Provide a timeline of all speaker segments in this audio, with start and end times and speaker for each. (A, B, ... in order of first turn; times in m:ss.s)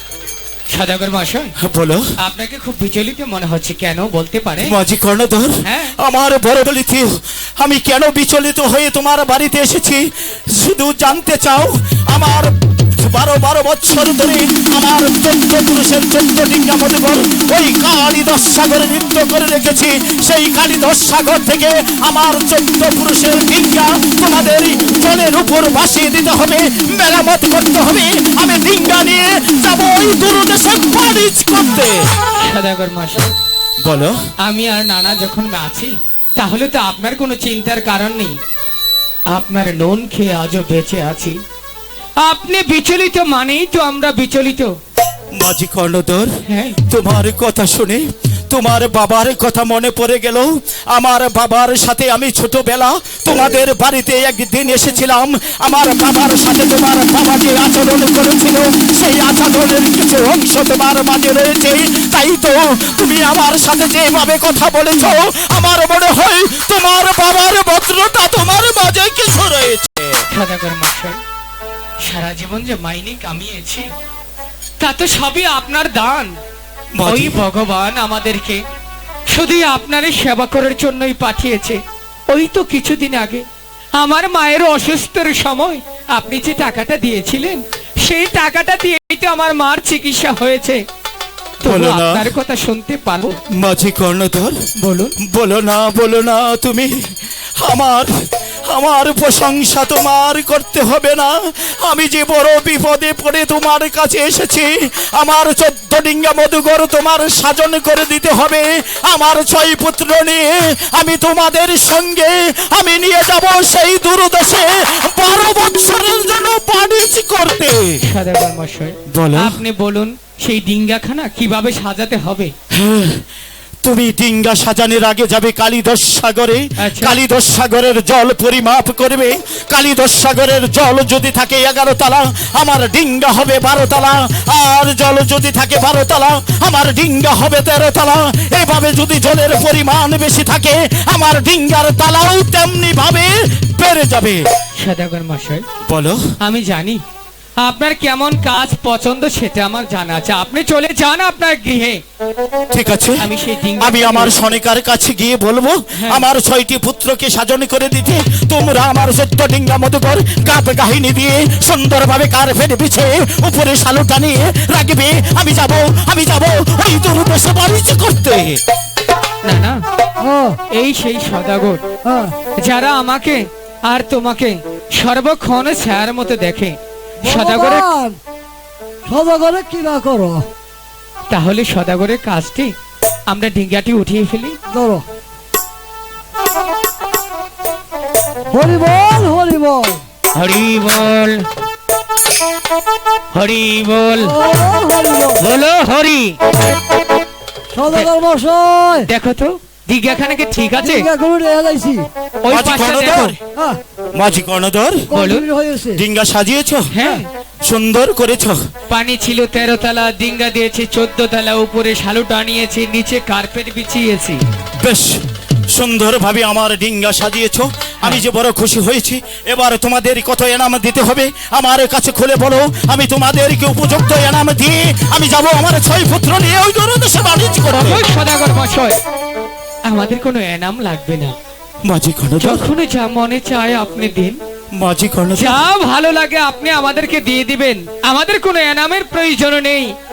0:00.7-0:01.5 A
0:01.6-0:02.0 B
0:02.2-0:04.7 A
0:04.6-0:32.1 B
0:05.6-0:05.9 A
0:32.4-0:33.3 A
0:33.8-0:34.2 B
0:34.4-0:38.4 A
0:39.3-0:41.4 A
0:42.2-0:44.7 A
0:45.3-0:46.3 B
0:46.4-0:46.8 A
0:46.9-1:10.2 B
1:10.3-1:11.2 A
1:12.0-1:13.9 A
1:14.8-1:16.4 A
1:16.9-1:17.4 B
1:17.0-1:18.6 A
1:19.3-1:30.8 A
1:31.6-1:33.4 A
1:31.6-1:32.2 B
1:33.6-1:34.6 B
1:34.8-1:35.1 A
1:35.2-1:38.1 B
1:38.7-1:58.0 B
1:58.0-2:02.5 A
1:59.1-1:59.6 B
2:02.7-2:03.2 B
2:03.8-2:24.4 B
2:06.8-2:07.2 A
2:24.8-2:25.6 A
2:25.9-2:26.2 B
2:26.4-2:27.0 A
2:27.6-2:32.0 A
2:32.7-2:33.2 B
2:33.2-2:34.4 A
2:33.8-2:48.6 B
2:36.0-2:36.2 A
2:49.4-2:49.8 A
2:50.2-2:50.6 C
2:50.7-2:51.8 A
2:52.0-2:52.3 C
2:52.6-2:57.8 A
2:57.2-2:58.2 C
2:59.0-3:00.4 C
3:01.3-3:02.8 A
3:03.3-3:04.6 A
3:04.7-3:05.0 C
3:08.5-3:10.0 C
3:10.3-3:11.5 A
3:13.3-3:14.4 A
3:14.2-3:15.5 C
3:15.4-3:16.4 A
3:17.7-3:19.1 C
3:19.1-3:21.1 A
3:20.8-3:22.0 C
3:22.4-3:23.4 A
3:22.5-3:23.3 B
3:24.1-3:25.0 B
3:25.1-3:26.0 C
3:25.1-3:25.5 A
3:26.0-3:26.9 B
3:26.9-3:27.2 A
3:27.0-3:27.2 C
3:27.6-3:28.6 B
3:28.9-3:34.4 A
3:34.8-3:35.1 B
3:35.7-3:48.0 B
3:47.7-3:49.0 A
3:49.8-3:51.4 A
3:51.8-3:52.6 B
3:52.4-3:54.4 A
3:54.7-3:55.6 B
3:55.4-3:59.9 A